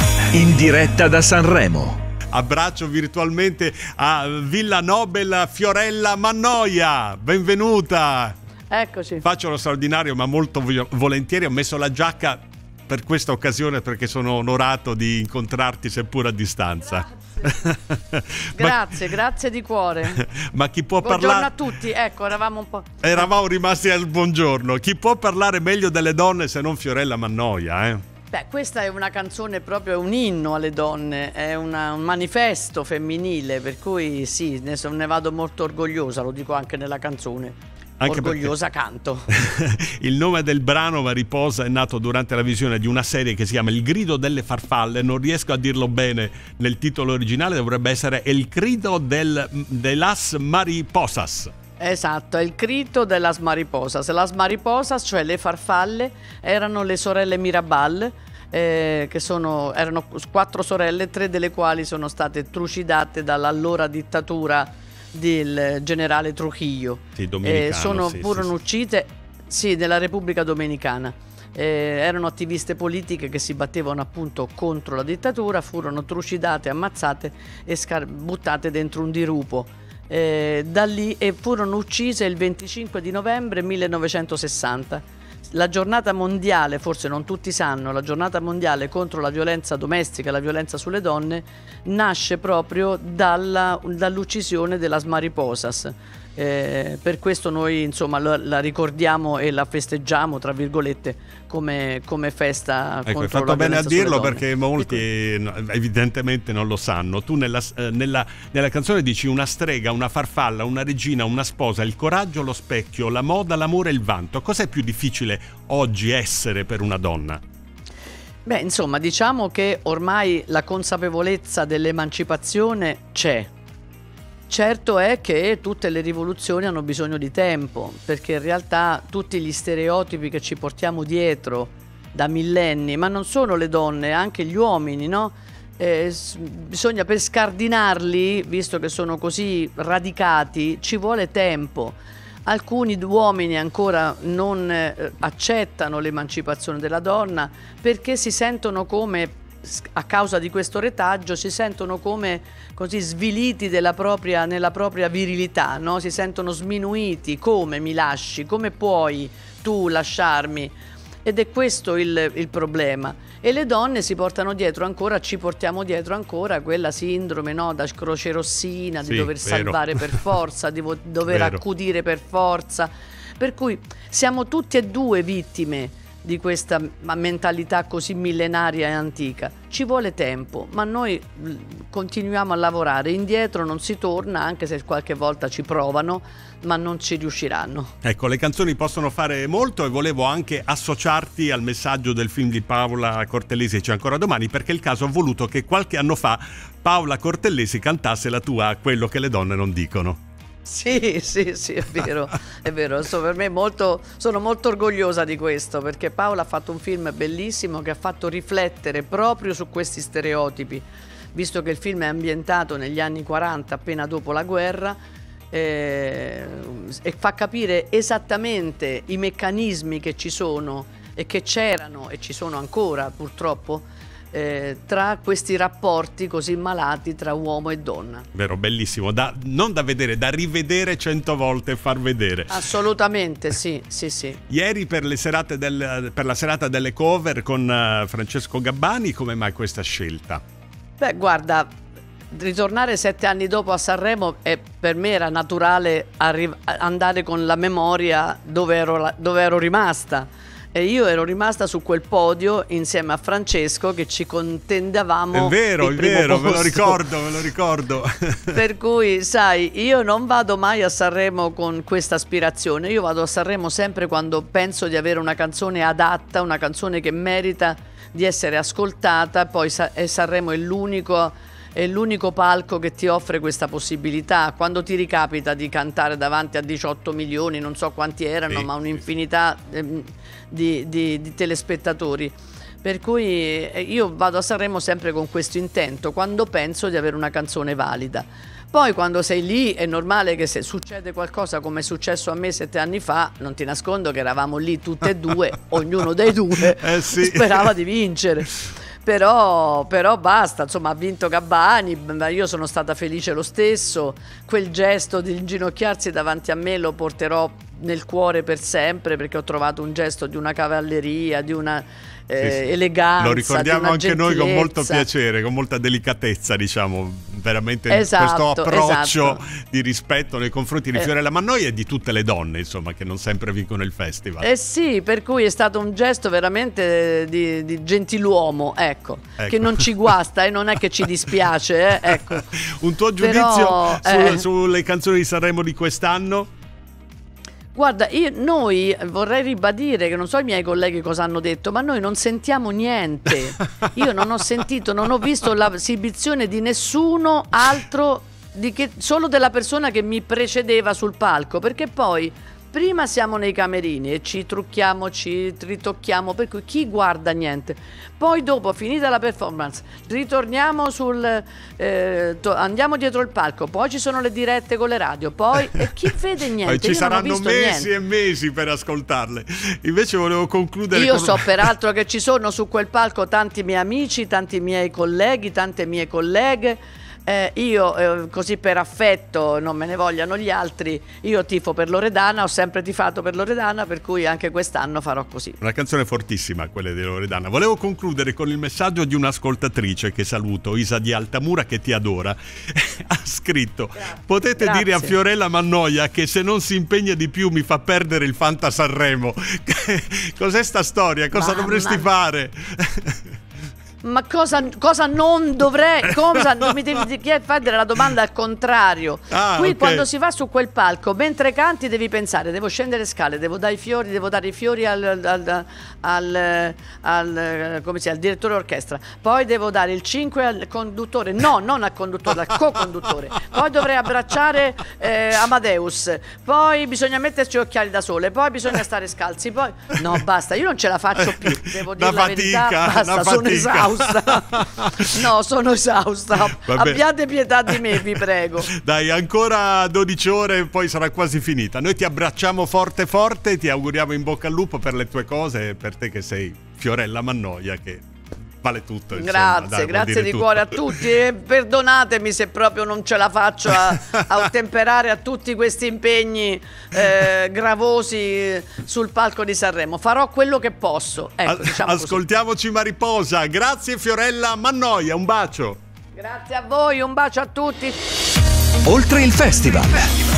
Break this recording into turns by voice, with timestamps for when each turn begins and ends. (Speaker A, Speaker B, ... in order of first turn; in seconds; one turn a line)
Speaker A: 0.3-2.0
Speaker B: 2.3-8.4
Speaker C: 8.7-9.2
Speaker B: 9.2-18.9
Speaker C: 18.6-20.2
Speaker B: 20.1-21.6
Speaker C: 21.0-23.3
Speaker B: 23.0-28.0
Speaker C: 28.3-39.3
Speaker B: 38.0-38.5
Speaker B: 39.3-51.5
Speaker C: 51.8-105.0
Speaker B: 67.2-68.5
Speaker B: 103.1-117.4
Speaker C: 118.5-123.5
Speaker C: 124.5-187.9
Speaker B: 169.1-170.2
Speaker B: 171.3-171.6
Speaker B: 188.0-200.2
Speaker C: 200.6-215.0
Speaker C: 215.5-228.3
Speaker B: 228.3-232.6
Speaker C: 232.5-234.4
Speaker B: 234.5-240.4
Speaker C: 241.0-241.8
Speaker C: 242.3-257.0
Speaker B: 255.3-258.6
Speaker C: 258.5-315.1
Speaker B: 296.7-297.7
Speaker B: 313.2-324.5
Speaker C: 317.9-319.4
Speaker C: 324.4-332.5
Speaker B: 329.4-329.9
Speaker B: 332.1-336.5
Speaker C: 333.2-334.4
Speaker C: 337.7-367.9
Speaker B: 366.6-371.7
Speaker C: 370.9-385.6
Speaker B: 385.6-403.2
Speaker C: 394.6-395.1
Speaker C: 401.3-402.1
Speaker C: 404.0-438.7
Speaker B: 409.3-410.1
Speaker B: 431.4-435.2
Speaker B: 436.7-437.0
Speaker B: 437.7-438.0
Speaker B: 438.7-448.1
Speaker B: 448.6-451.1
Speaker C: 449.1-462.2
Speaker B: 461.5-465.8
Speaker C: 466.1-468.0
Speaker A: 468.9-470.1